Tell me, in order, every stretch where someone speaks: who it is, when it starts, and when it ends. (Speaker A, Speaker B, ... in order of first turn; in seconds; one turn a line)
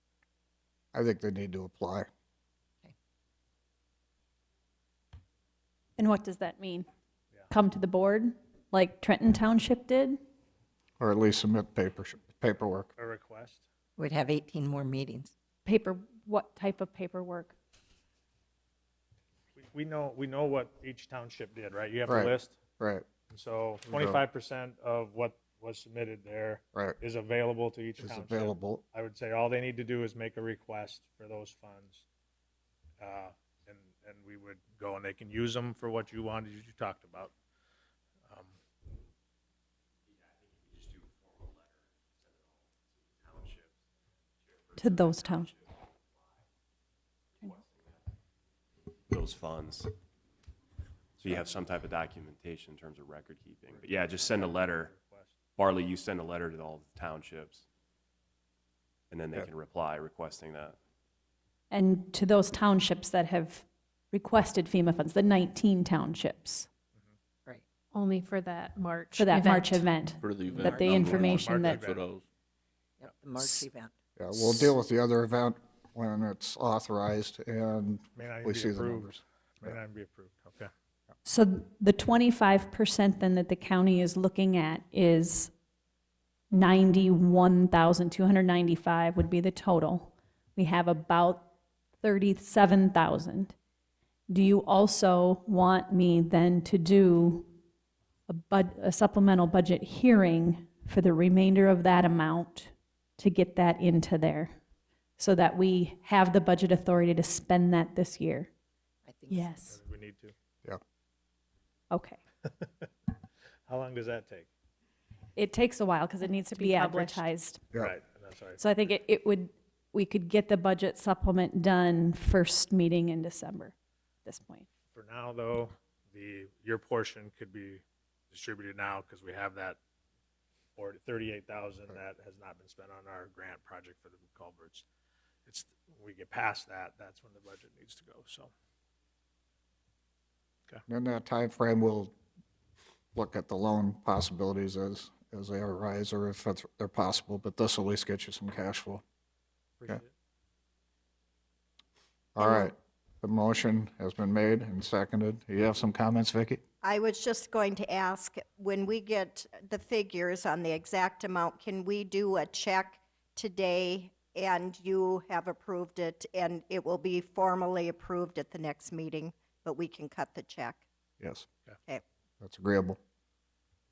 Speaker A: 0.9-2.1
Speaker B: 6.0-6.9
Speaker B: 7.5-10.2
Speaker A: 11.0-12.9
Speaker C: 13.0-13.6
Speaker D: 14.0-15.3
Speaker B: 15.6-17.5
Speaker C: 19.6-22.6
Speaker A: 22.1-23.0
Speaker C: 23.3-32.0
Speaker A: 23.9-24.2
Speaker A: 28.0-28.8
Speaker C: 33.0-37.3
Speaker E: 40.2-42.5
Speaker E: 43.2-43.7
Speaker E: 44.5-45.7
Speaker B: 44.8-45.5
Speaker E: 47.4-48.0
Speaker E: 49.1-49.9
Speaker E: 51.2-54.9
Speaker C: 53.7-55.3
Speaker E: 55.6-57.6
Speaker E: 59.1-60.8
Speaker B: 61.7-66.7
Speaker F: 67.9-70.1
Speaker B: 69.1-71.8
Speaker G: 70.2-72.2
Speaker C: 71.2-72.0
Speaker D: 73.0-73.9
Speaker A: 74.2-79.2
Speaker B: 74.3-74.7
Speaker C: 78.2-79.0
Speaker C: 79.6-80.7
Speaker B: 81.2-85.5
Speaker B: 86.5-91.5
Speaker B: 92.0-93.5
Speaker B: 94.3-97.5
Speaker B: 98.3-104.5
Speaker B: 105.2-108.5
Speaker D: 109.0-109.7
Speaker B: 109.3-109.7
Speaker C: 109.7-110.3
Speaker B: 111.9-112.2
Speaker C: 113.7-114.5
Speaker B: 115.3-117.6
Speaker F: 116.5-117.2
Speaker C: 117.8-118.6
Speaker B: 118.6-123.7
Speaker B: 124.2-124.7
Speaker C: 124.9-129.8
Speaker C: 130.8-134.8
Speaker C: 135.5-138.5
Speaker A: 140.9-142.1
Speaker A: 143.1-149.0
Speaker A: 152.3-156.6
Speaker H: 156.8-170.8
Speaker A: 171.2-171.4
Speaker A: 172.4-173.0